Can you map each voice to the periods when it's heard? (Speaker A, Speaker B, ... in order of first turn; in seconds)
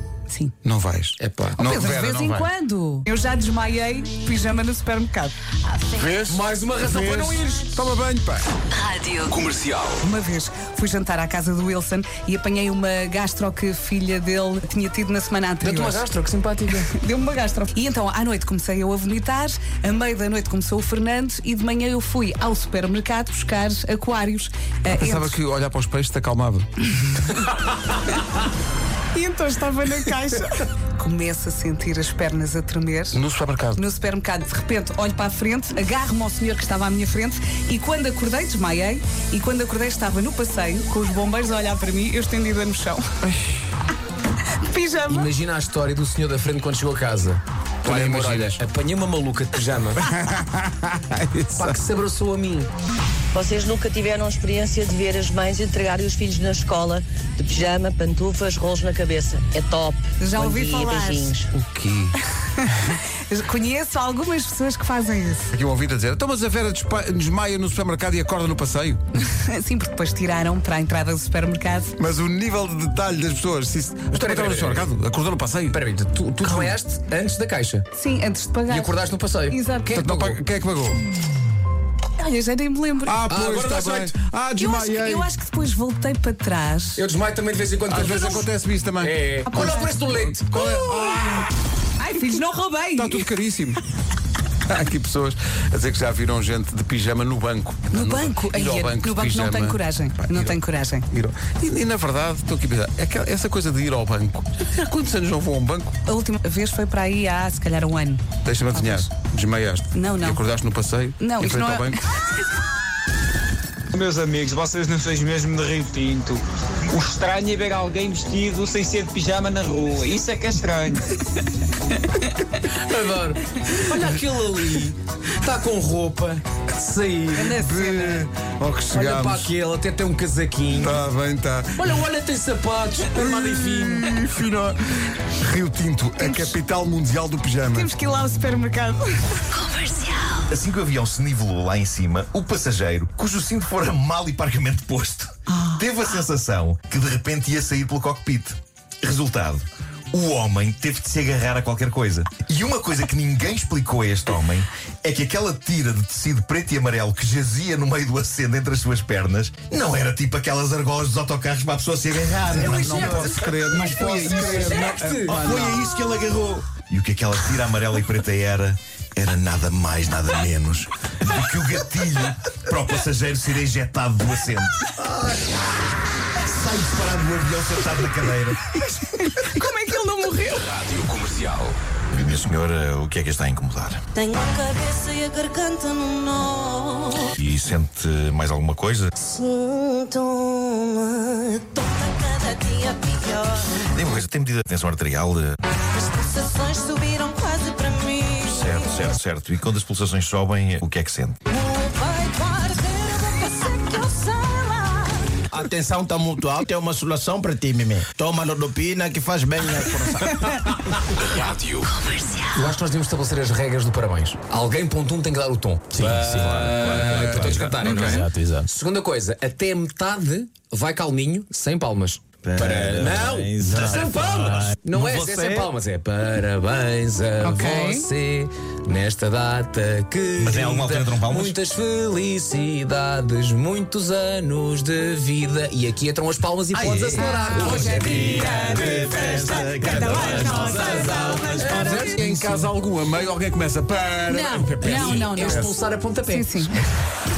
Speaker A: 0.3-0.5, 1.6-5.3, 10.0-16.0, 16.9-25.4, 29.1-33.2, 33.7-43.0, 44.6-45.3, 60.2-61.4, 63.3-65.5, 69.2-71.9, 77.9-78.9, 79.5-80.0, 82.1-83.2, 84.6-87.0, 88.0-88.5, 89.5-91.5, 92.0-93.2, 97.9-101.1, 106.0-109.1, 109.9-110.4, 111.2-112.3, 127.3-128.2, 136.2-136.5, 137.7-139.7, 145.5-145.8, 179.0-181.0, 217.8-218.2, 227.4-228.1, 236.8-242.0, 244.3-246.7
Speaker B: 0.6-2.5, 5.9-8.5, 24.9-26.7, 33.1-33.8, 47.8-48.6, 50.1-51.8, 61.5-62.2, 65.5-69.0, 72.0-75.8, 79.9-81.0, 83.1-85.3, 87.9-91.4, 93.0-93.8, 94.7-100.6, 101.1-105.9, 108.4-112.0, 127.6-129.5, 130.7-132.0, 133.2-134.8, 135.4-137.9, 162.6-165.8, 217.0-218.3, 237.2-238.0, 241.6-245.7
Speaker C: 1.2-1.6, 6.2-7.7, 9.3-9.8, 15.6-16.9, 45.1-50.0, 51.5-52.7, 74.1-74.9, 75.7-77.8, 78.7-80.4, 83.3-84.1, 87.0-88.4, 89.0-90.5, 122.6-127.6, 128.9-131.0, 131.8-134.2, 162.6-165.8, 212.5-238.9, 239.8-242.7, 244.8-246.7
Speaker D: 8.7-9.4, 139.7-140.3, 184.1-187.3, 189.2-193.8, 195.9-199.1, 201.5-205.3, 212.0-212.5
Speaker E: 53.3-61.5
Speaker F: 113.9-121.1
Speaker G: 140.5-163.4, 164.0-164.5, 165.2-175.3, 176.4-178.8, 182.1-184.0, 187.3-189.1, 193.9-195.6, 198.4-201.4, 216.0-217.9, 222.4-225.7, 230.4-231.6, 238.0-241.8
Speaker H: 205.5-210.4